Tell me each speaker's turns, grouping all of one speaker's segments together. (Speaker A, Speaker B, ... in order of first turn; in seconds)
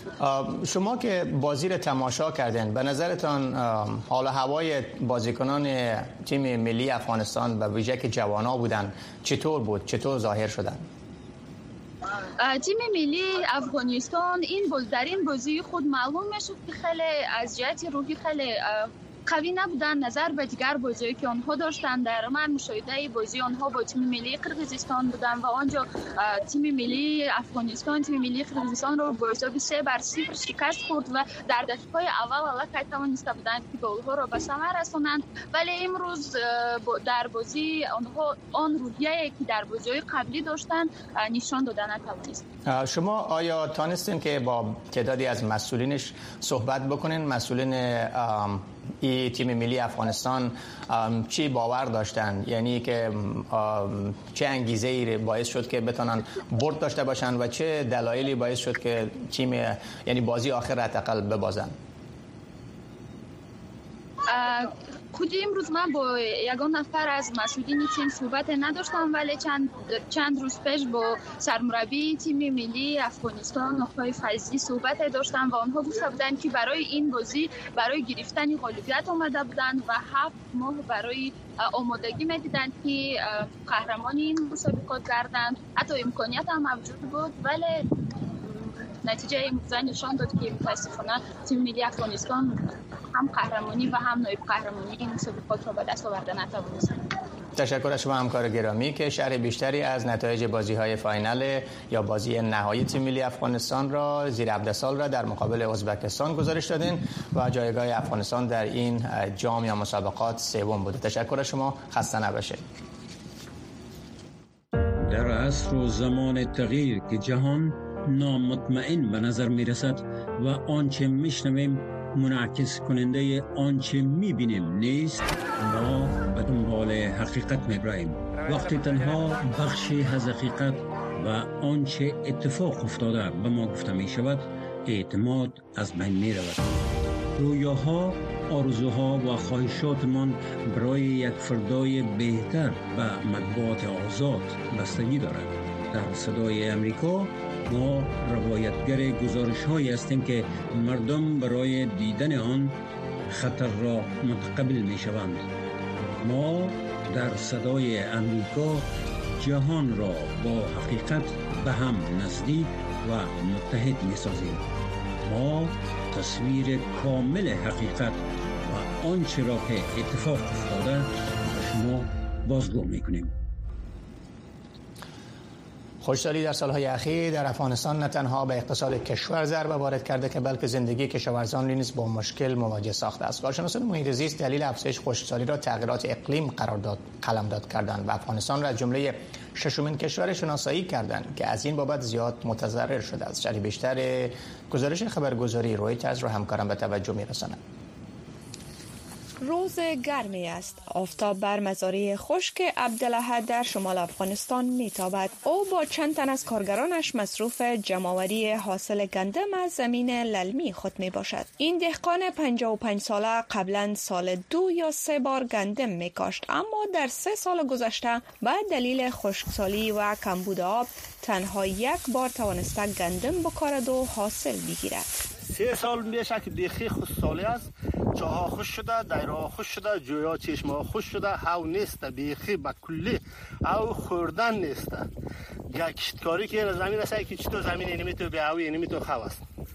Speaker A: 0.2-10.8, 42.6-61.7, 97.6-112.6, 176.0-197.6
Speaker B: 12.4-42.4, 64.3-87.9, 88.4-97.0
Speaker C: 115.0-136.8, 137.3-152.8, 153.3-155.4, 156.2-158.8, 159.4-164.6, 165.2-173.3
Speaker D: 199.4-225.2
Speaker E: 225.5-235.1, 235.7-239.4